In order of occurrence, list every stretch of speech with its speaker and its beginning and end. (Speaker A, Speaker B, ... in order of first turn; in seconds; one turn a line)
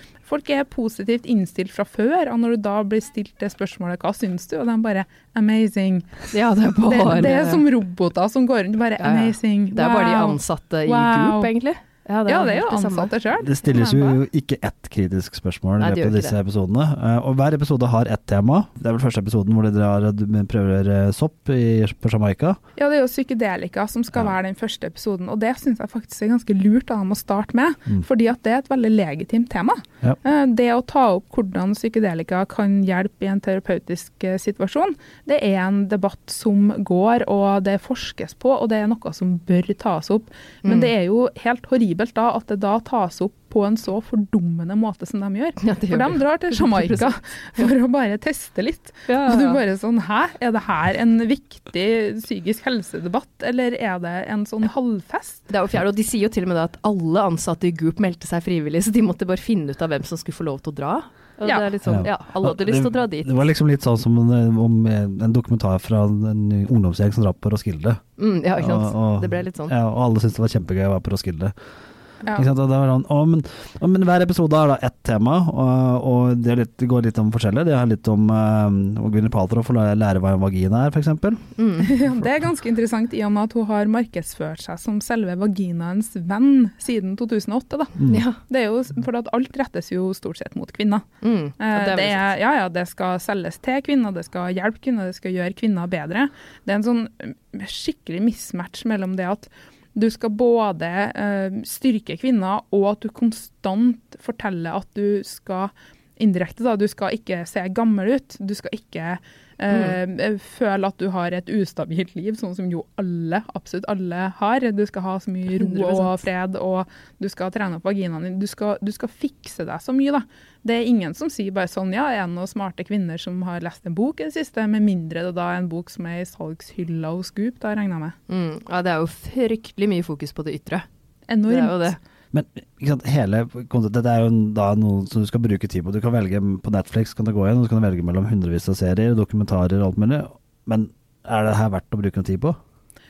Speaker A: 0.2-6.2
Speaker B: 6.3-7.7
Speaker A: 6.9-11.5
Speaker B: 9.0-13.1
Speaker A: 12.3-14.2
Speaker C: 13.4-22.6
Speaker B: 15.8-16.4
Speaker A: 22.8-55.5
Speaker B: 40.6-40.9
Speaker B: 45.6-47.7
Speaker B: 49.1-49.6
Speaker B: 55.5-63.4
Speaker A: 61.5-61.7
Speaker C: 61.9-68.0
Speaker B: 68.2-69.7
Speaker C: 68.5-71.5
Speaker C: 72.3-81.5
Speaker B: 81.6-82.0
Speaker A: 81.8-91.0
Speaker C: 88.0-88.2
Speaker B: 88.1-88.4
Speaker B: 91.2-92.3
Speaker A: 91.6-128.2
Speaker B: 109.7-110.0
Speaker B: 115.5-116.2
Speaker B: 128.3-130.9
Speaker A: 131.3-131.9
Speaker B: 131.4-132.0
Speaker C: 132.3-142.6